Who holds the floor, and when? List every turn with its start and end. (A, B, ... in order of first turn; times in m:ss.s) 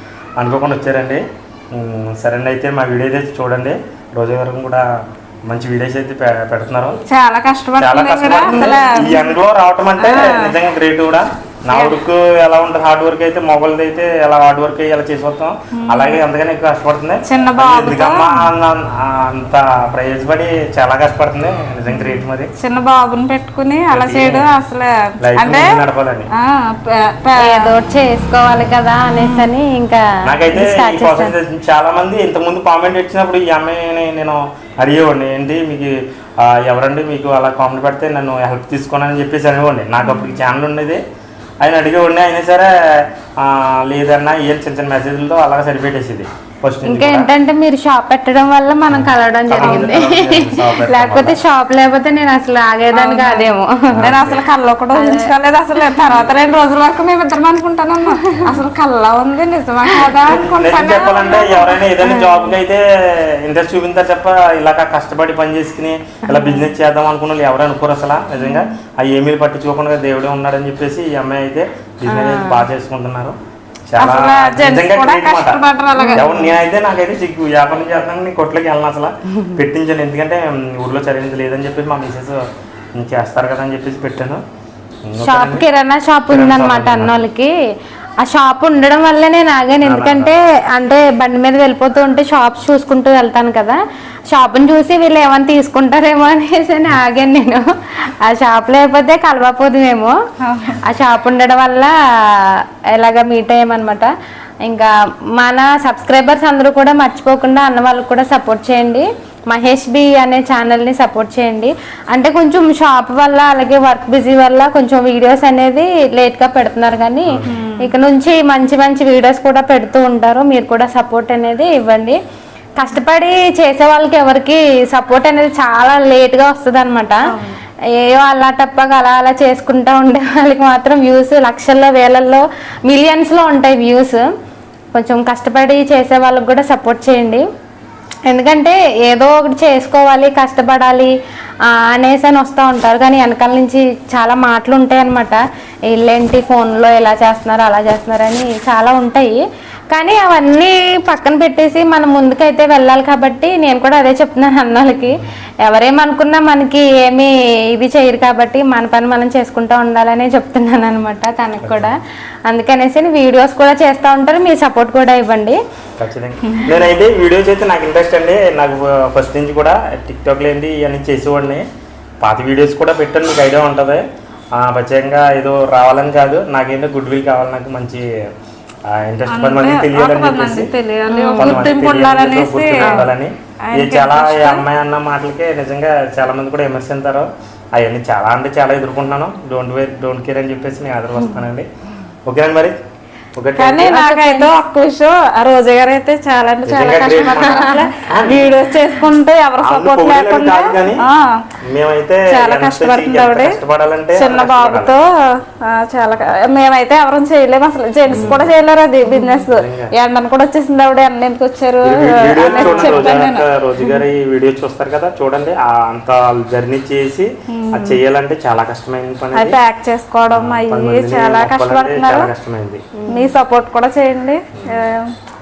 0:00.4-0:04.8 A
0:05.5-0:07.0 A
0:07.1-0:09.3 B
0:07.8-0:22.5 A
0:10.0-0:10.5 B
0:15.8-0:16.2 B
0:17.2-0:18.5 B
0:22.6-0:25.8 B
0:23.9-0:24.4 A
0:25.2-0:26.3 A
0:26.3-0:27.7 B
0:27.4-0:31.3 C
0:29.2-0:29.5 B
0:30.2-0:41.0 A
0:41.6-0:47.3 A
0:46.8-0:54.1 C
0:48.9-0:51.4 A
0:49.6-0:49.9 B
0:52.9-1:01.8 B
0:53.9-0:54.4 A
0:54.9-0:55.3 C
0:58.1-0:58.6 C
1:00.2-1:13.4 A
1:02.0-1:02.6 C
1:06.3-1:06.7 C
1:12.1-1:12.6 C
1:13.9-1:15.6 A
1:14.0-1:16.5 B
1:16.0-1:16.4 C
1:16.1-1:22.4 A
1:23.0-1:24.4 A
1:25.1-1:25.6 A
1:25.2-1:27.5 C
1:26.3-1:27.2 A
1:28.2-1:33.8 C
1:29.8-1:30.3 A
1:34.3-1:37.6 C
1:38.2-1:40.1 C
1:40.4-1:40.8 B
1:40.8-1:44.1 C
1:44.6-2:02.2 C
1:57.4-1:57.9 B
2:02.8-2:07.3 C
2:07.3-2:07.6 B
2:08.0-2:14.3 C
2:14.9-2:17.4 C
2:18.3-2:21.1 C
2:21.7-2:41.9 C
2:41.6-2:41.9 A
2:42.5-2:45.6 C
2:46.0-2:51.6 A
2:46.5-2:46.8 B
2:52.2-2:54.0 A
2:54.6-2:58.0 A
2:58.9-3:00.7 A
2:59.3-3:03.1 B
3:01.1-3:01.7 C
3:01.4-3:11.7 A
3:02.8-3:03.1 C
3:03.7-3:04.6 B
3:12.3-3:12.7 A
3:13.4-3:14.0 A
3:13.6-3:21.3 B
3:13.9-3:14.5 C
3:16.6-3:18.6 A
3:17.4-3:17.8 C
3:19.6-3:21.0 A
3:21.6-3:24.9 A
3:22.3-3:23.6 B
3:24.1-3:33.4 B
3:28.1-3:28.5 A
3:29.5-3:29.9 A
3:31.8-3:39.6 A
3:32.4-3:33.2 C
3:37.5-3:38.0 B
3:39.3-3:42.3 B
3:40.3-3:42.8 A
3:43.0-3:43.3 C
3:43.1-3:45.1 B